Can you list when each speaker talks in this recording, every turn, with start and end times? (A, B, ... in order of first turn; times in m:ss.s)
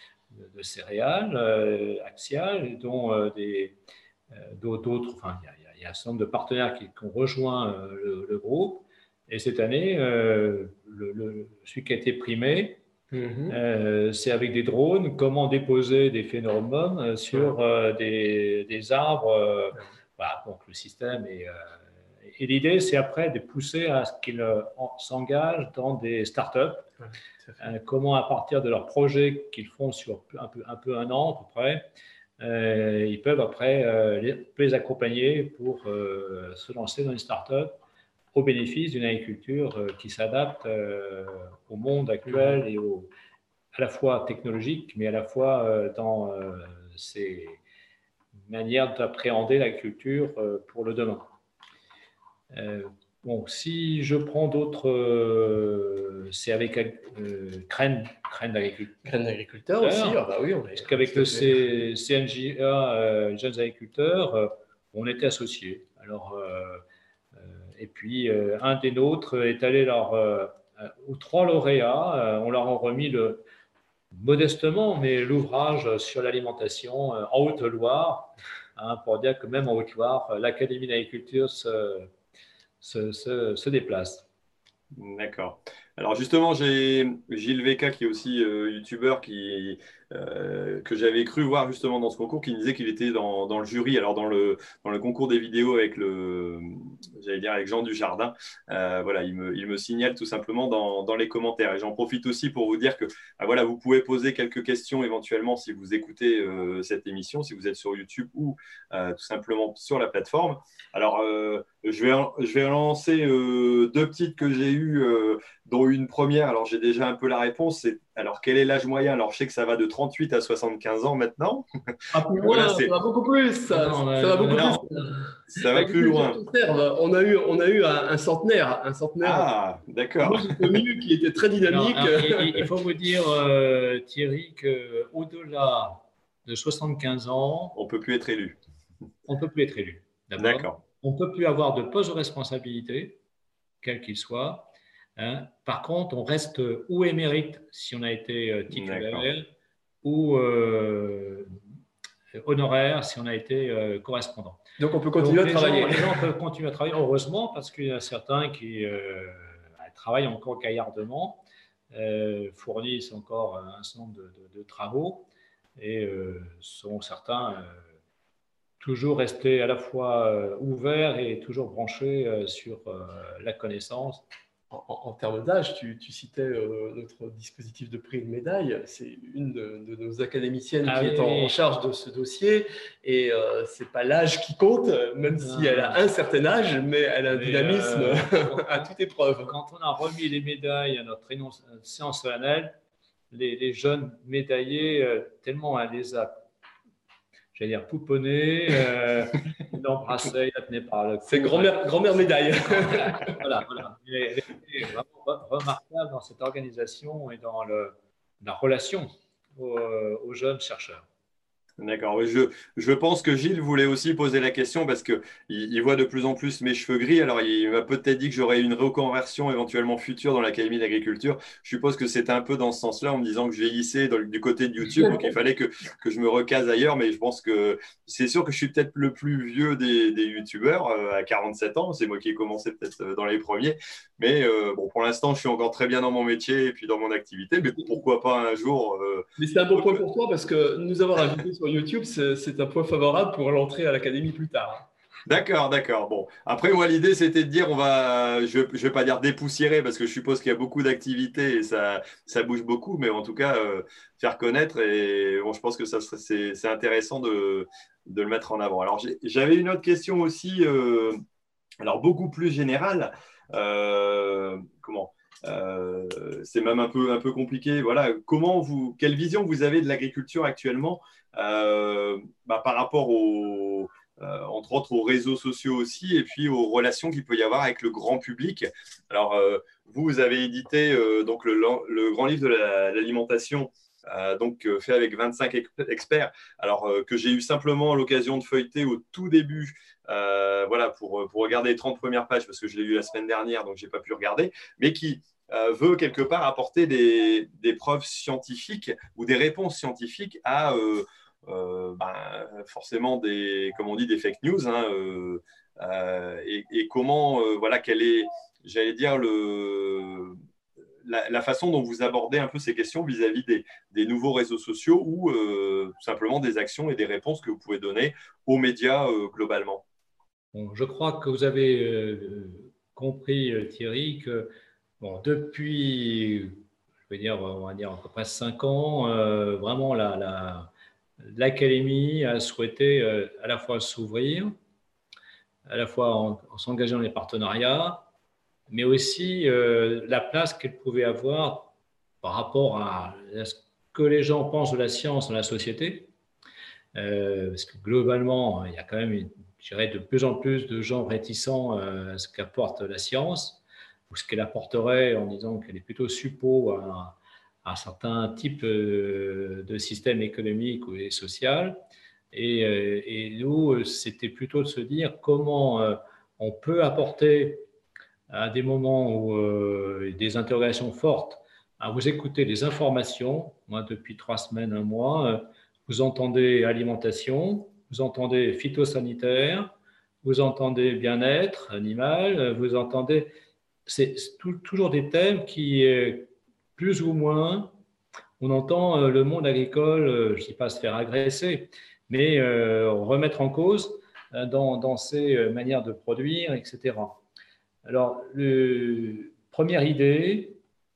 0:00.3-0:03.8 A
0:04.3-0:12.8 A
0:13.1-0:13.6 B
0:13.5-0:21.6 A
0:22.3-0:26.9 A
0:27.6-0:31.9 A
0:32.4-0:37.8 A
0:38.3-0:43.1 A
0:43.7-0:47.6 A
0:48.5-0:51.3 A
0:52.5-0:59.0 A
0:59.0-1:01.6 B
0:59.8-1:00.2 A
1:00.7-1:06.8 A
1:07.8-1:13.4 A
1:14.1-1:22.1 A
1:22.8-1:24.3 A
1:24.9-2:01.7 C
2:02.1-2:02.9 A
2:02.2-2:09.5 B
2:02.4-2:02.9 C
2:03.7-2:05.1 A
2:04.5-2:04.8 C
2:05.5-2:06.4 C
2:09.2-2:10.8 C
2:10.2-2:12.7 B
2:11.6-2:17.8 A
2:17.8-2:18.6 C
2:19.3-2:23.2 A
2:20.4-2:20.8 C
2:23.8-2:29.5 A
2:28.7-2:29.3 C
2:30.0-2:31.6 A
2:32.4-2:34.6 A
2:34.8-2:36.3 B
2:35.2-2:47.9 A
2:48.8-2:54.2 A
2:54.7-3:09.5 B
3:00.8-3:01.6 A
3:05.4-3:06.0 A
3:07.3-3:12.8 A
3:13.3-3:16.4 A
3:17.5-3:31.1 A
3:21.3-3:23.4 B
3:31.8-4:00.0 C
3:59.4-4:04.9 B
4:05.3-4:21.2 C
4:21.8-5:10.4 C
5:11.0-5:19.8 C
5:20.5-5:30.7 A
5:31.2-5:34.5 A
5:35.7-5:38.1 A
5:38.7-5:46.1 A
5:46.9-6:01.8 A
6:02.3-6:07.6 A
6:08.3-6:23.3 A
6:23.9-6:27.7 A
6:28.4-6:37.2 A
6:37.8-6:40.6 A